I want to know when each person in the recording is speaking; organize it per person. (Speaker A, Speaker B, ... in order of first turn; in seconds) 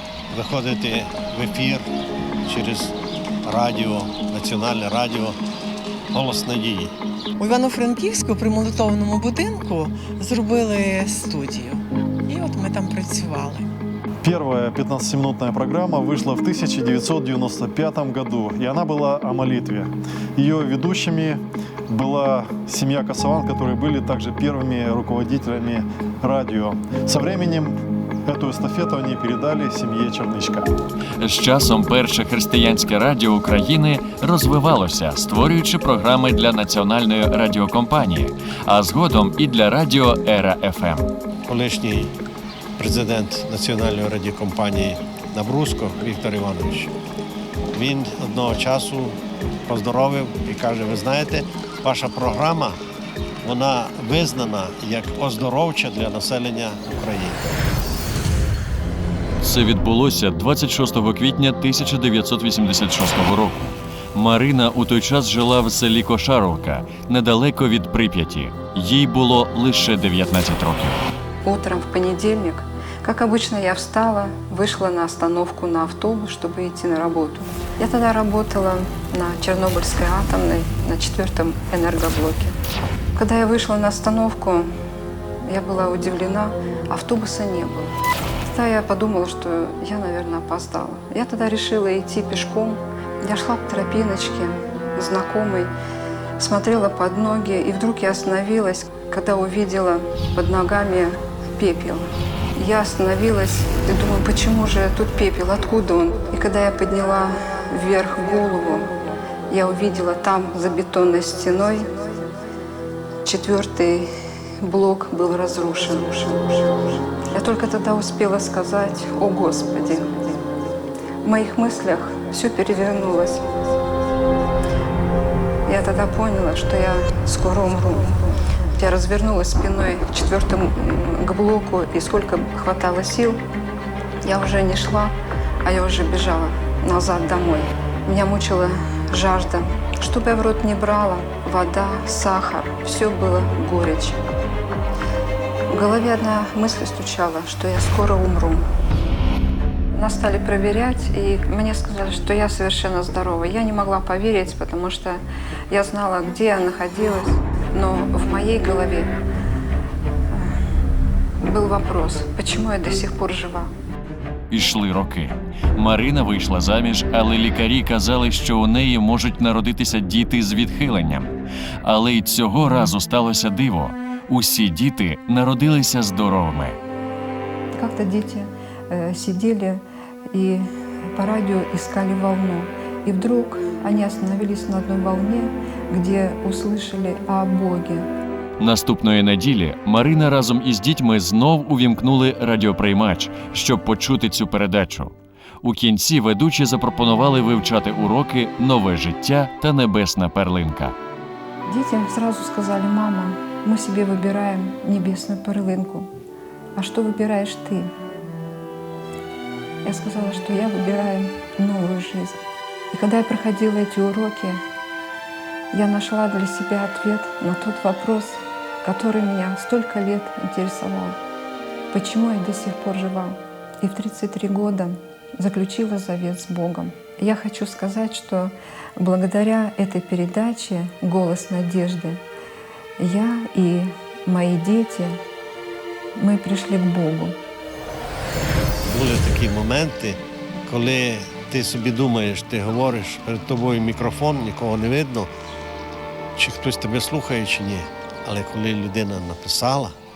Speaker A: 0.3-1.9, 2.4-5.4, 6.1-6.9, 41.5-42.1, 42.8-46.9, 47.7-52.8, 53.4-57.5, 238.8-245.3, 246.4-249.9
Speaker B: 7.4-13.7
Speaker C: 14.2-30.7
Speaker D: 31.2-41.1, 59.4-71.0, 164.5-171.3, 171.8-176.8, 188.6-200.9
Speaker E: 71.4-82.6, 83.2-84.7, 85.4-95.7, 96.4-108.9, 109.5-111.9, 113.2-114.1, 114.6-120.5, 121.2-123.5, 125.7-133.4, 134.2-144.2, 145.7-148.7, 149.9-159.1, 161.4-163.7, 177.7-179.8, 180.3-188.1, 201.7-206.1, 206.8-207.9, 209.8-212.4, 212.9-214.6, 215.7-221.2, 221.9-232.2, 233.0-235.2, 236.2-237.4